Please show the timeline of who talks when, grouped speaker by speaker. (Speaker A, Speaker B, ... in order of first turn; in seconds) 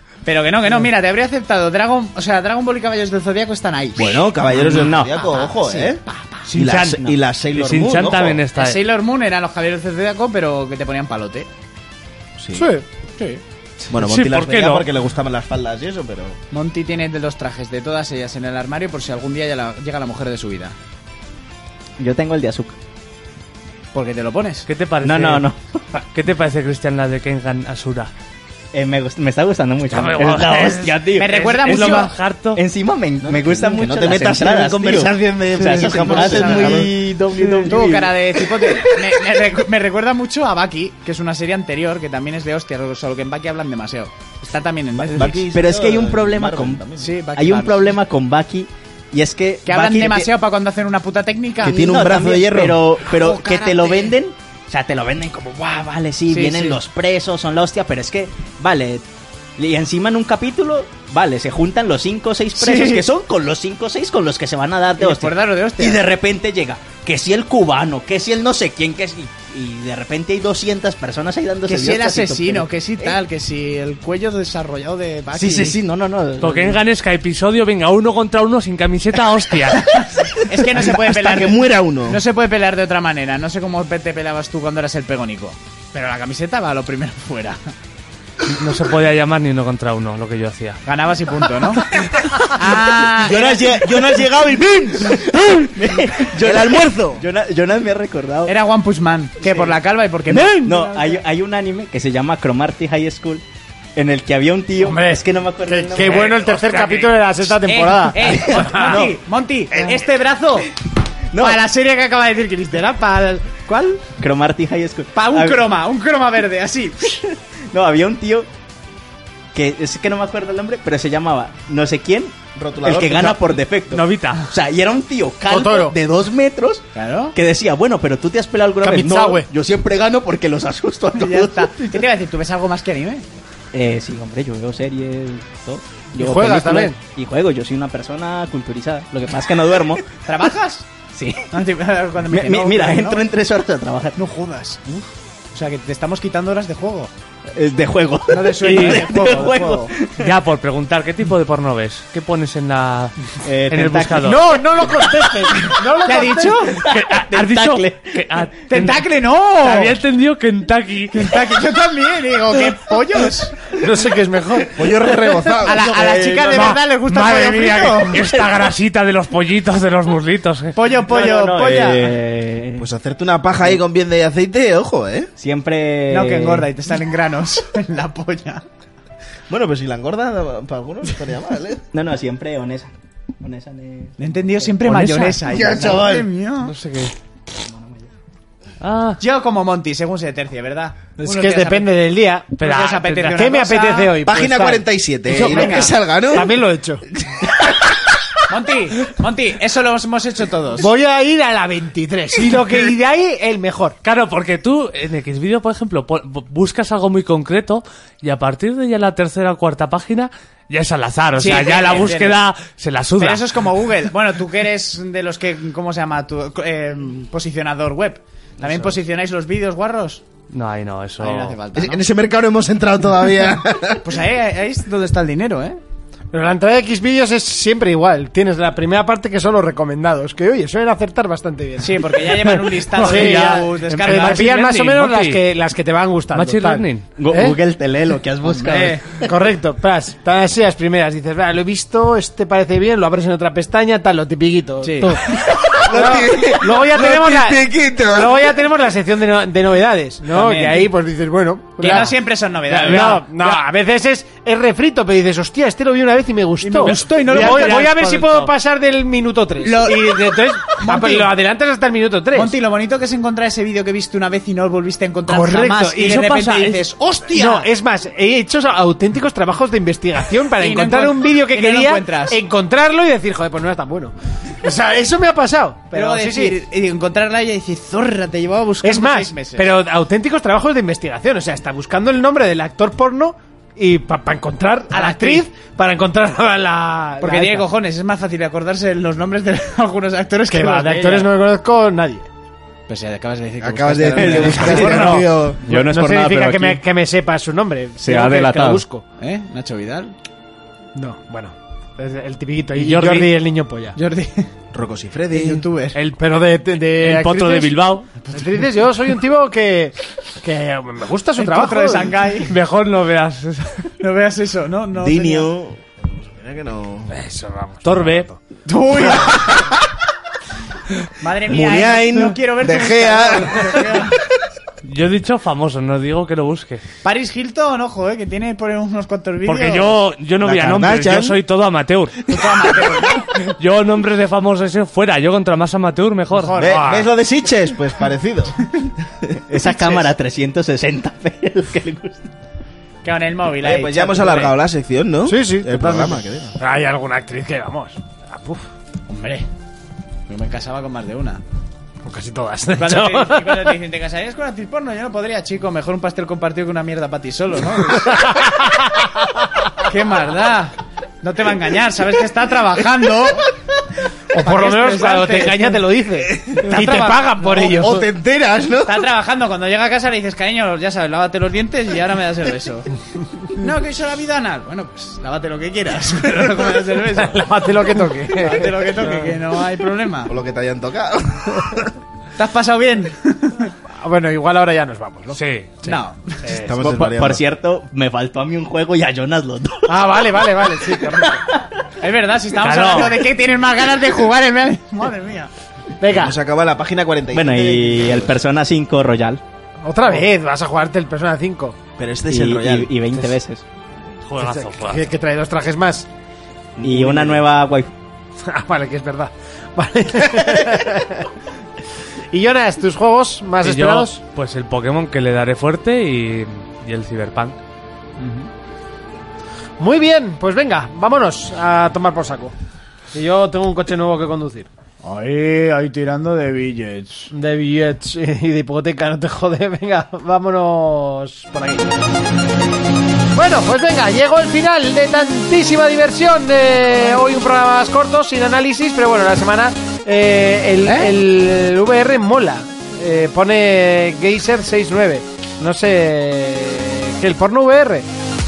Speaker A: 0.2-6.5, 8.6-11.5, 13.2-13.4, 16.5-20.7, 23.9-24.6, 31.1-32.1, 36.0-36.9, 37.7-45.5, 47.0-47.9, 49.7-51.8, 53.1-54.1, 56.3-56.8, 62.5-63.0, 65.0-66.0, 71.7-75.8, 79.9-87.7, 90.8-91.9, 92.5-93.7, 98.5-101.2, 107.7-110.7, 111.3-114.0, 115.2-117.2, 126.9-127.3, 131.1-133.2, 140.2-143.2, 144.2-147.1, 148.3-149.9, 156.0-156.8, 158.7-159.9, 161.1-163.7, 165.6-168.2, 170.7-172.2, 176.1-178.6, 184.2-186.7, 189.2-191.9, 192.6-194.2, 195.3-195.9, 198.5-200.9, 211.4-212.4, 213.2-220.2, 221.2-222.0, 224.0-225.8, 231.8-234.5, 238.5-239.0, 244.8-245.2, 250.3-250.9, 251.8-253.3, 256.6-257.9, 259.6-261.3, 262.3-267.7, 270.6-272.4, 275.9-279.7, 284.9-285.5, 287.2-291.3, 292.9-295.2, 298.1-298.7, 299.2-300.1, 302.8-303.3, 303.9-304.5, 305.3-306.0, 308.2-308.6, 311.4-312.5, 314.0-315.5, 318.6-319.6, 321.2-324.1, 327.0-330.0, 332.3-333.3, 336.3-336.9, 339.6-340.1, 343.0-344.6, 349.1-349.5, 350.3-351.4, 352.7-358.5, 359.8-363.4, 364.4-365.8, 366.6-367.8, 368.9-372.9, 373.5-377.7, 378.3-380.3, 382.4-383.7, 385.8-386.4, 392.0-395.5, 418.2-418.5, 425.0-427.3, 440.8-441.1
Speaker B: 4.0-8.4, 12.4-12.7, 13.9-16.4, 33.2-37.0, 45.1-47.1, 51.6-52.9, 80.8-82.2, 93.2-95.7, 96.3-97.2, 122.5-123.4, 164.7-166.4, 172.8-175.3, 179.5-181.8, 185.4-186.3, 194.2-196.6, 221.7-224.2, 245.4-248.6, 293.6-295.7, 304.7-305.6, 314.9-317.1, 319.0-319.8, 321.5-324.1, 330.4-331.4, 336.6-338.7, 343.6-346.6, 366.3-366.9, 367.4-369.0, 380.3-381.9, 386.5-387.4, 396.1-398.4, 402.0-403.1, 406.8-407.5
Speaker C: 4.5-5.3, 22.0-22.8, 25.0-26.0, 28.7-38.2, 45.0-50.3, 51.6-59.0, 59.6-73.2, 75.3-76.8, 95.3-98.5, 99.4-99.7, 100.3-103.4, 104.0-106.5, 108.2-109.1, 111.3-111.6, 114.2-115.7, 117.1-118.5, 119.5-132.0, 133.7-140.1, 142.3-144.2, 147.5-150.3, 153.4-155.6, 156.8-158.4, 165.5-166.8, 171.1-172.9, 175.4-176.7, 181.9-184.7, 187.6-188.1, 237.2-239.3, 294.2-296.8, 298.0-298.8, 339.5-342.3, 386.8-391.7, 397.3-399.4, 402.3-403.6, 406.8-407.9
Speaker D: 6.5-7.0, 7.5-8.8, 13.9-14.9, 24.6-25.4, 26.1-28.1, 29.9-32.6, 37.4-37.6, 76.4-79.8, 88.5-90.8, 106.0-107.1, 123.9-124.5, 148.6-149.1, 150.2-153.1, 153.7-154.4, 156.8-159.0, 159.6-161.3, 167.1-170.7, 184.8-185.4, 186.6-187.1, 188.8-189.2, 192.6-193.4, 204.0-213.4, 220.5-221.6, 232.9-235.4, 236.3-237.1, 252.9-253.6, 256.9-258.5, 307.0-308.1, 312.5-313.9, 317.8-318.3, 324.8-326.8, 329.4-332.5, 333.1-336.6, 385.3-385.7, 386.4-386.7, 392.6-393.2, 404.3-405.0, 413.6-417.6
Speaker E: 12.5-12.8, 104.8-108.9, 125.5-125.9, 128.8-129.5, 136.2-137.0, 154.2-156.7, 163.8-164.7, 191.2-192.5, 193.3-195.7, 196.2-197.0, 200.8-203.9, 226.3-232.2, 232.9-237.6, 239.2-262.6, 265.2-276.6, 278.8-287.7, 290.5-292.3, 294.3-299.0, 300.9-303.9, 306.0-307.8, 308.3-312.1, 317.1-318.4, 336.6-337.1, 345.2-348.7, 352.0-353.7, 358.2-358.9, 364.3-368.1, 377.2-379.3, 384.0-385.9, 389.9-391.4, 396.0-396.4, 399.8-401.8, 404.4-406.1, 408.4-411.3, 412.3-414.2, 419.8-422.5, 423.1-424.7, 427.3-431.9, 433.3-448.1